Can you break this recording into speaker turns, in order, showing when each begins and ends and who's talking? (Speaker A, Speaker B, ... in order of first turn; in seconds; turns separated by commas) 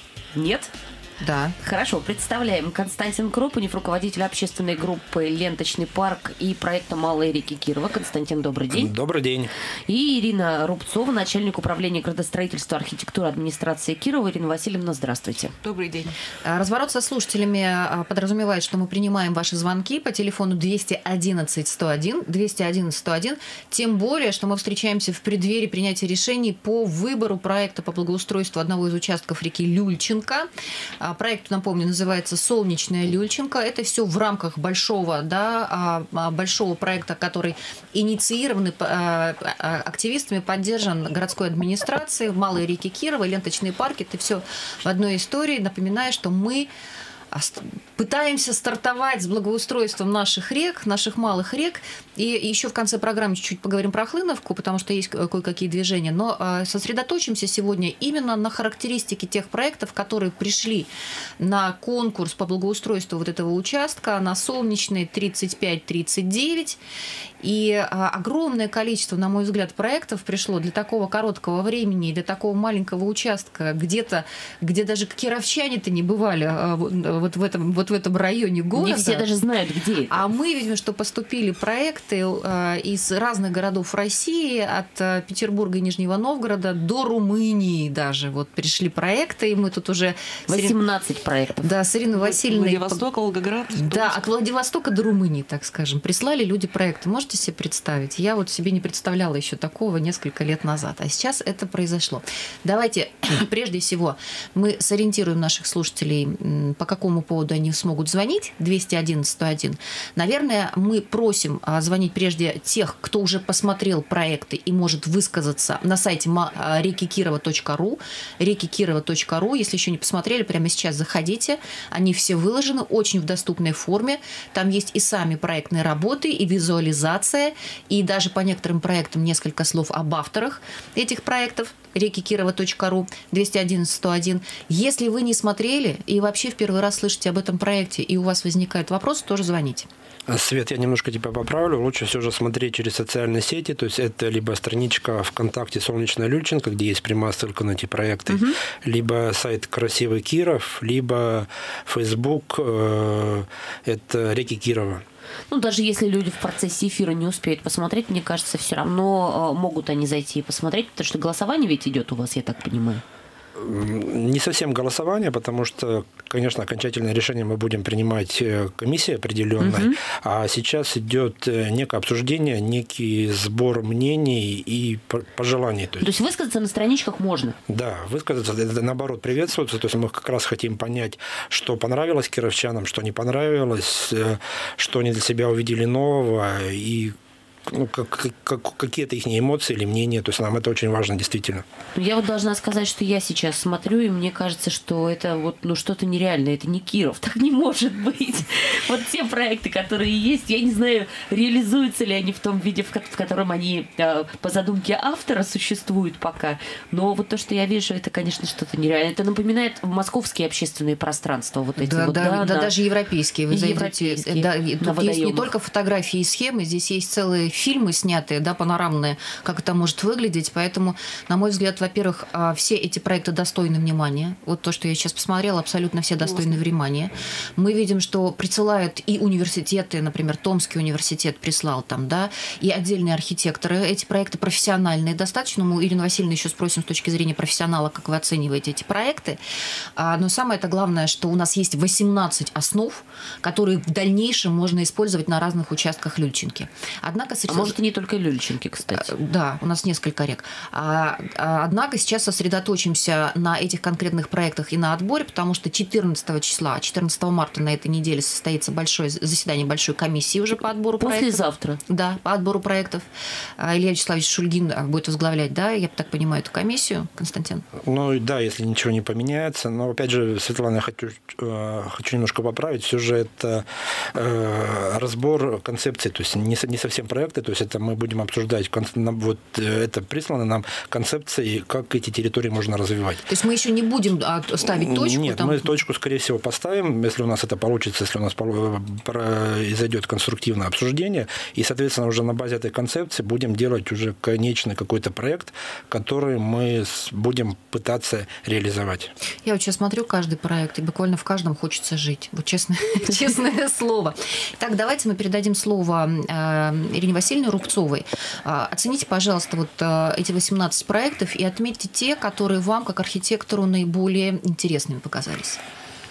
Speaker A: 0.3-0.7, Speaker B: 1.2-1.6, Speaker A: 1.6-8.9, Speaker C: 8.7-9.5, Speaker A: 9.9-15.5, Speaker D: 15.6-16.1, Speaker B: 16.4-30.5, Speaker B: 31.0-46.7, Speaker B: 47.3-66.8, Speaker B: 67.4-79.3, Speaker A: 78.8-80.2, Speaker B: 80.1-90.8, Speaker A: 90.5-91.7, Speaker B: 91.6-93.0, Speaker D: 92.1-94.2, Speaker B: 93.8-139.9, Speaker C: 140.3-155.0, Speaker A: 148.3-148.6, Speaker A: 155.5-163.0, Speaker C: 163.6-176.1, Speaker A: 169.6-170.0, Speaker A: 176.0-177.6, Speaker C: 177.7-187.2, Speaker C: 187.7-191.6, Speaker A: 191.9-212.7, Speaker B: 211.8-239.4, Speaker A: 213.5-215.5, Speaker D: 226.2-226.6, Speaker B: 240.0-247.8, Speaker A: 247.5-249.1, Speaker B: 249.0-263.1, Speaker A: 261.0-261.8, Speaker B: 263.6-267.6, Speaker C: 267.8-283.2, Speaker B: 283.3-285.7, Speaker C: 284.6-299.1, Speaker B: 299.4-315.6